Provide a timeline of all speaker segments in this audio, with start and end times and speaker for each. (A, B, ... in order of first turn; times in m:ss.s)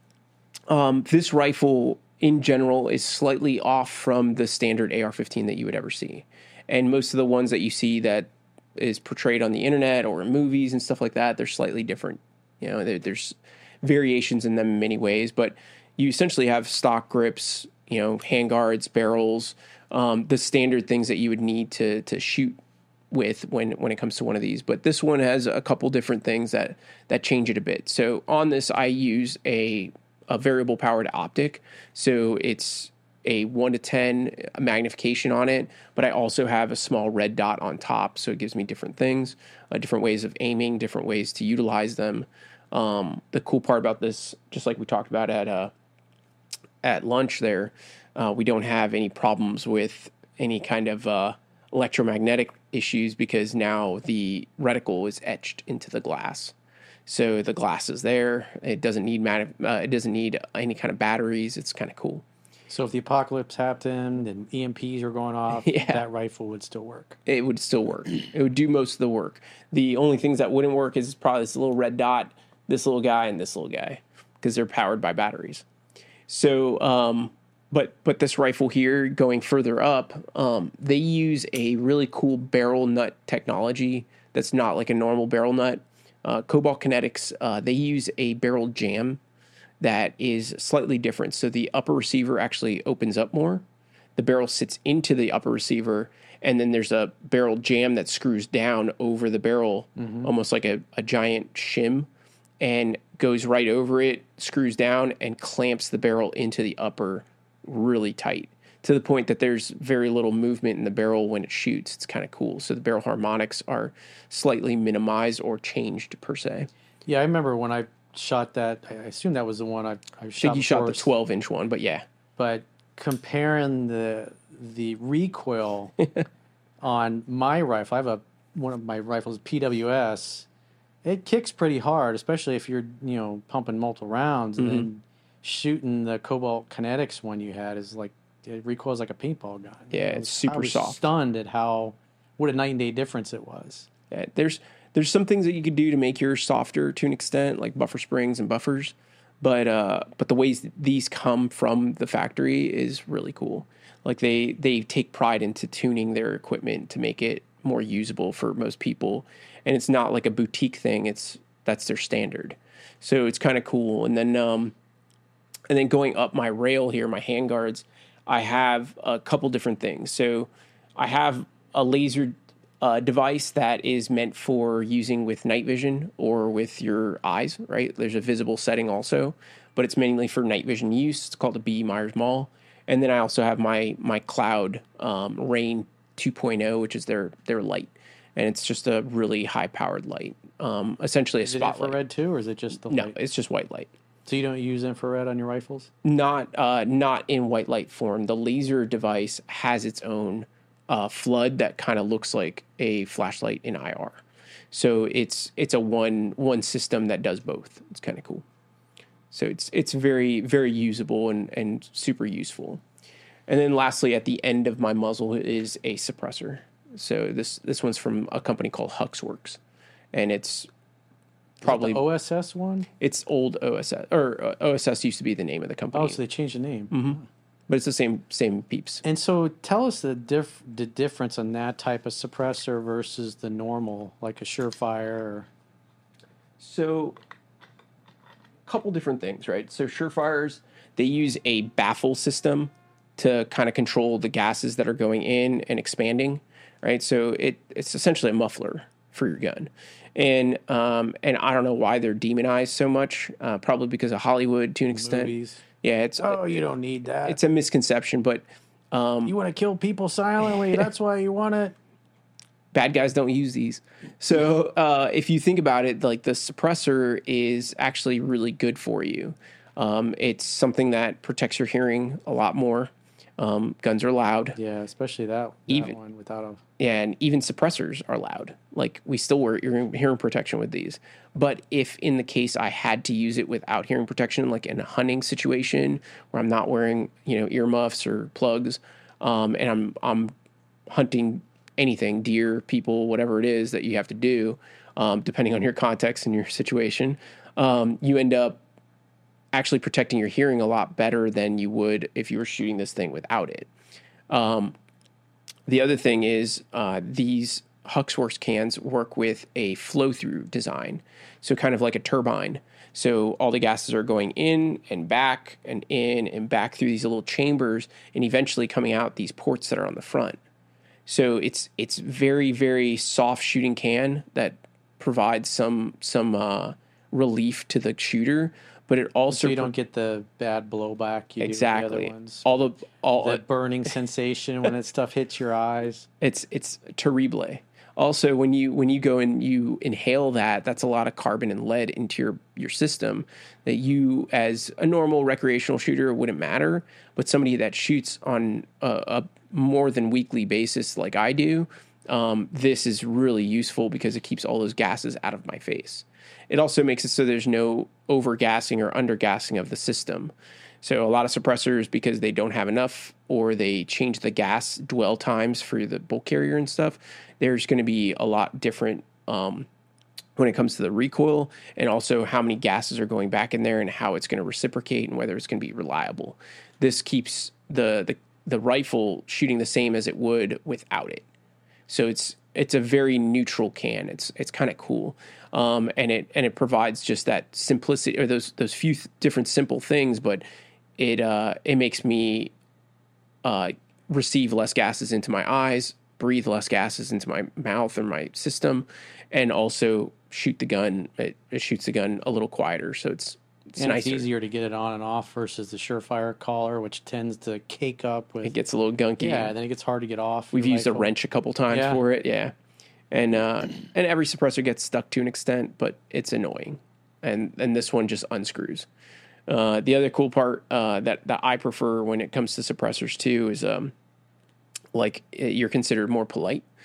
0:00.7-0:22.6 A
0:23.1-0:45.7 A
0:46.8-0:56.6 A
0:57.1-1:02.2 A
1:02.7-1:07.2 B
1:05.6-1:06.0 A
1:07.3-1:15.6 A
1:16.3-1:29.2 A
1:29.8-1:33.6 A
1:34.2-1:42.1 A
1:40.0-1:40.3 B
1:42.6-1:56.7 A
1:57.1-2:01.1 B
2:00.4-2:02.0 A
2:02.4-2:06.0 B
2:06.8-2:10.5 B
2:11.0-2:23.9 B
2:14.6-2:14.9 A
2:19.9-2:21.0 A
2:24.1-2:44.8 A
2:45.7-3:12.0 A
3:11.4-3:13.2 B
3:12.9-3:13.9 A
3:14.3-3:15.9 B
3:16.0-3:24.2 A
3:24.7-3:28.4 A
3:29.3-3:32.8 A
3:33.5-3:39.6 A
3:40.1-3:40.7 A
3:41.6-3:42.0 A
3:41.6-3:42.9 B
3:43.0-3:46.2 A
3:45.9-3:47.3 B
3:46.9-3:49.0 A
3:49.0-3:55.5 B
3:56.6-3:57.2 A
3:58.6-4:16.4 A
4:14.9-4:15.6 B
4:16.2-4:17.4 B
4:17.2-4:19.3 A
4:19.2-4:21.8 B
4:22.7-4:34.6 A
4:34.6-4:36.6 B
4:35.7-4:36.0 A
4:36.8-4:50.3 A
4:50.9-4:58.6 A
4:59.5-5:03.7 A
5:04.3-5:04.8 A
5:05.7-5:20.4 A
5:21.1-5:29.7 A
5:29.3-5:32.6 B
5:31.4-5:33.4 A
5:33.2-5:36.1 B
5:36.2-6:09.7 A
6:10.4-6:21.2 A
6:21.9-6:30.4 A
6:31.0-6:32.5 A
6:33.4-6:44.3 A
6:43.8-6:48.5 B
6:48.4-6:49.5 A
6:49.2-6:51.1 B
6:50.5-6:52.5 A
6:51.7-6:52.0 B
6:53.1-6:58.9 A
6:59.5-7:03.9 A
7:04.9-7:06.7 A